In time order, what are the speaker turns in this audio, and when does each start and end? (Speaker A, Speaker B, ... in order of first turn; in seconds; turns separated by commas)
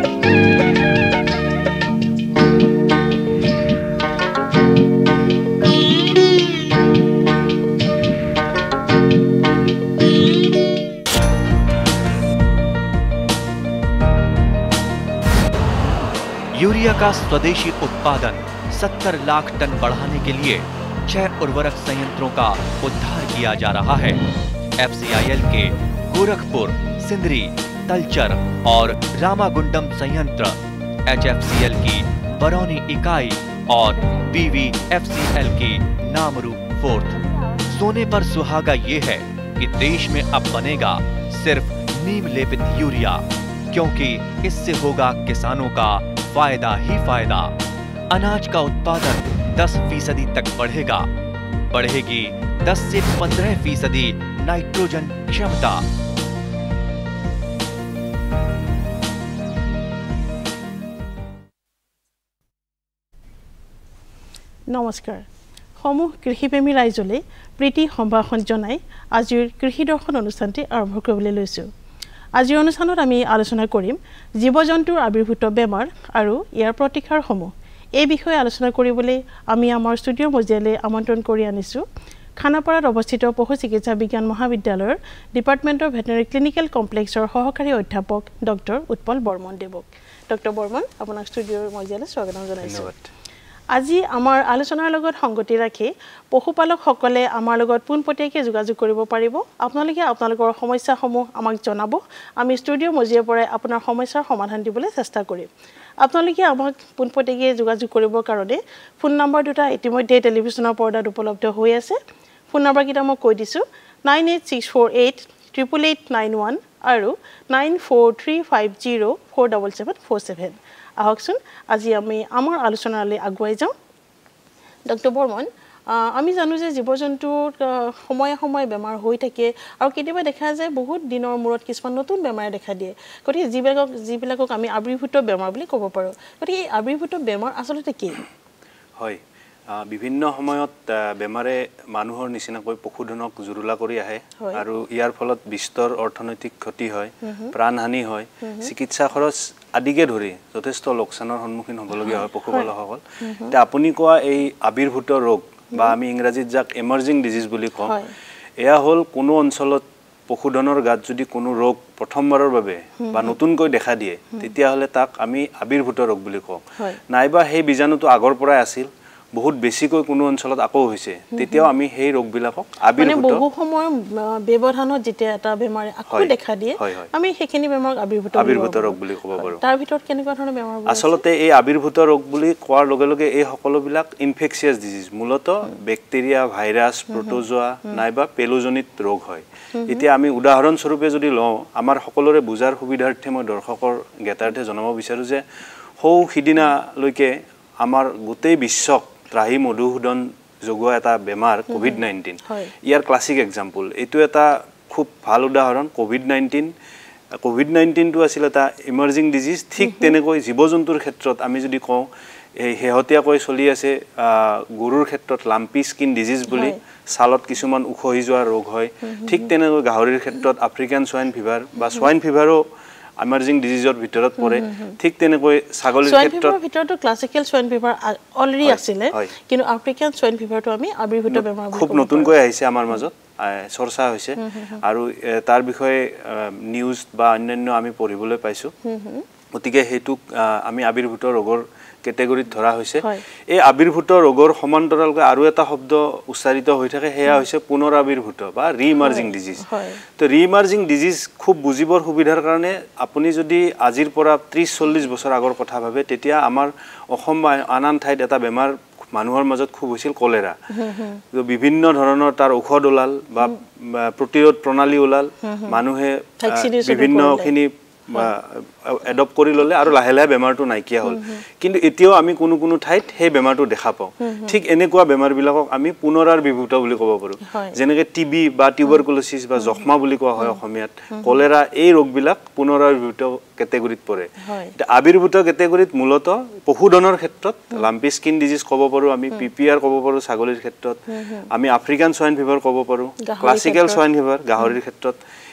Speaker A: 16.5-24.2, Speaker A: 24.8-47.5, Speaker A: 48.1-51.1, Speaker A: 51.7-55.8, Speaker B: 64.7-65.2, Speaker B: 65.8-71.7, Speaker B: 72.3-81.8, Speaker B: 82.4-92.9, Speaker C: 92.6-93.1, Speaker B: 93.7-105.5, Speaker B: 106.0-112.0, Speaker B: 112.5-123.7, Speaker B: 124.9-138.2, Speaker C: 139.0-157.9, Speaker B: 147.2-147.5, Speaker B: 148.4-148.7, Speaker B: 152.0-152.7, Speaker B: 153.2-153.5, Speaker B: 157.8-158.1, Speaker C: 158.6-173.4, Speaker B: 163.0-163.3, Speaker B: 171.3-171.7, Speaker B: 173.0-181.2, Speaker C: 176.1-177.1, Speaker C: 178.3-179.6, Speaker C: 180.9-195.4, Speaker B: 187.1-187.4, Speaker B: 189.7-190.0, Speaker C: 196.0-206.7, Speaker B: 201.8-202.7, Speaker C: 207.4-222.6, Speaker B: 216.5-216.8, Speaker B: 219.1-219.4, Speaker C: 223.2-226.6, Speaker B: 224.4-225.0, Speaker B: 226.0-232.3, Speaker C: 228.6-229.3, Speaker C: 231.3-238.7, Speaker B: 234.4-234.8, Speaker B: 238.8-239.2, Speaker C: 239.5-260.6, Speaker B: 249.0-250.0, Speaker B: 260.7-261.2, Speaker C: 261.3-295.2, Speaker B: 265.4-265.8, Speaker B: 266.4-267.6, Speaker B: 271.1-271.4, Speaker B: 274.2-274.6, Speaker B: 277.5-277.8, Speaker B: 284.4-284.7, Speaker B: 291.1-291.5, Speaker B: 293.2-294.0